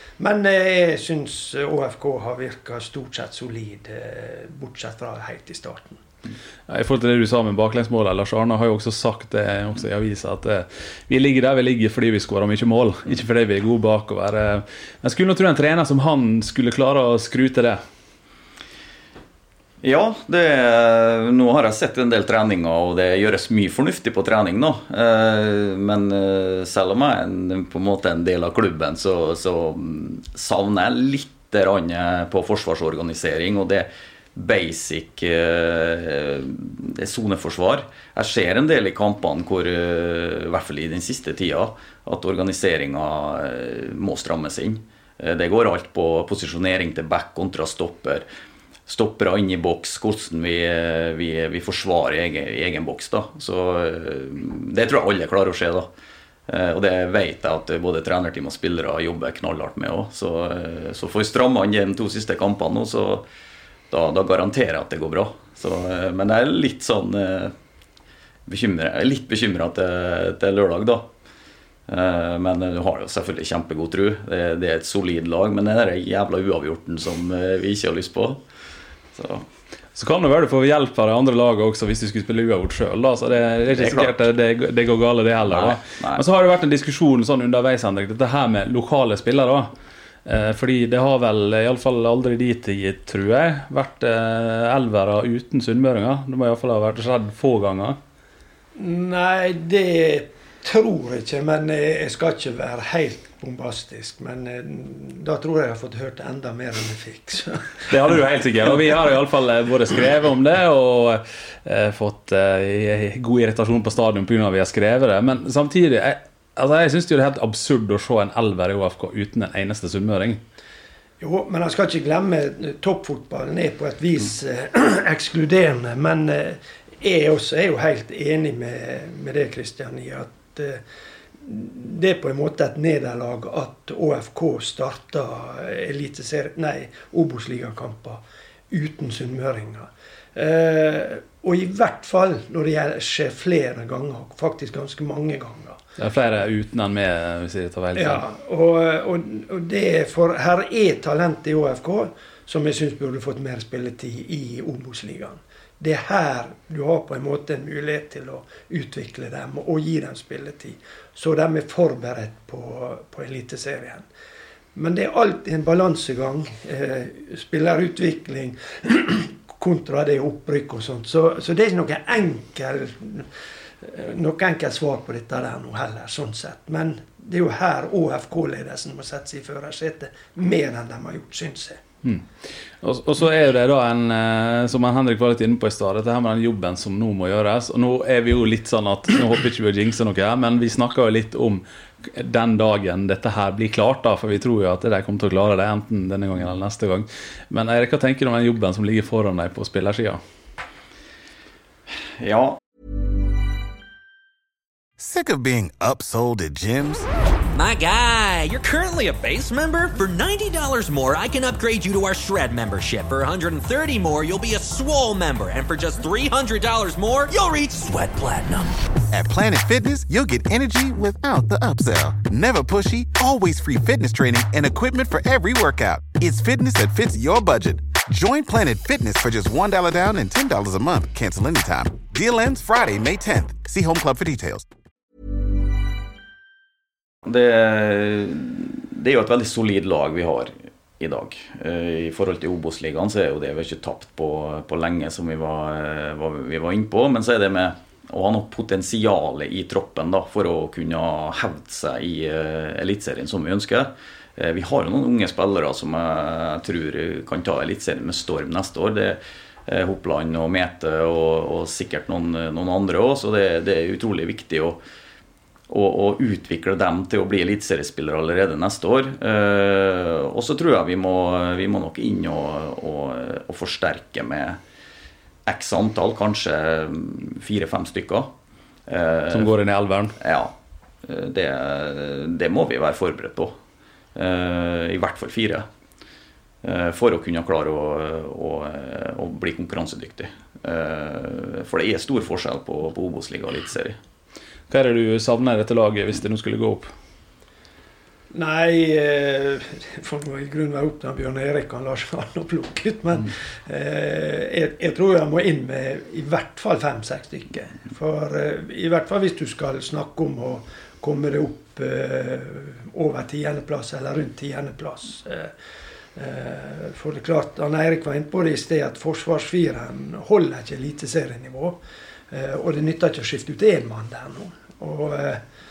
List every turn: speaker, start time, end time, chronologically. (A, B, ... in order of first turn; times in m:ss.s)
0:00.2-0:06.0 A
0:06.7-0:17.8 B
0:19.8-0:48.2 C
0:48.9-0:55.9 C
0:56.5-1:03.2 C
1:03.9-1:07.5 C
1:08.4-1:11.1 C
1:11.9-1:18.4 C
1:19.1-1:19.4 C
1:20.0-1:29.7 B
1:23.8-1:24.2 C
1:25.5-1:26.2 C
1:30.2-1:38.0 B
1:38.7-1:47.8 A
1:47.9-2:00.4 B
2:01.2-2:10.8 A
2:11.4-2:25.8 A
2:26.0-2:28.2 B
2:27.9-2:44.0 A
2:44.7-2:53.3 A
2:53.8-3:01.8 A
3:02.8-3:20.2 B
3:22.2-3:22.6 C
3:25.0-3:27.1 D
3:27.5-3:38.8 E
3:39.1-3:54.7 D
3:57.2-4:24.8 C
4:25.7-4:34.6 C
4:35.4-4:38.3 C
4:38.9-4:39.5 C
4:39.3-4:40.1 B
4:40.2-4:43.6 C
4:44.1-4:45.7 C
4:46.6-4:54.0 C
4:54.7-4:56.9 B
4:58.3-5:15.5 A
5:16.2-5:21.8 A
5:22.3-5:25.4 A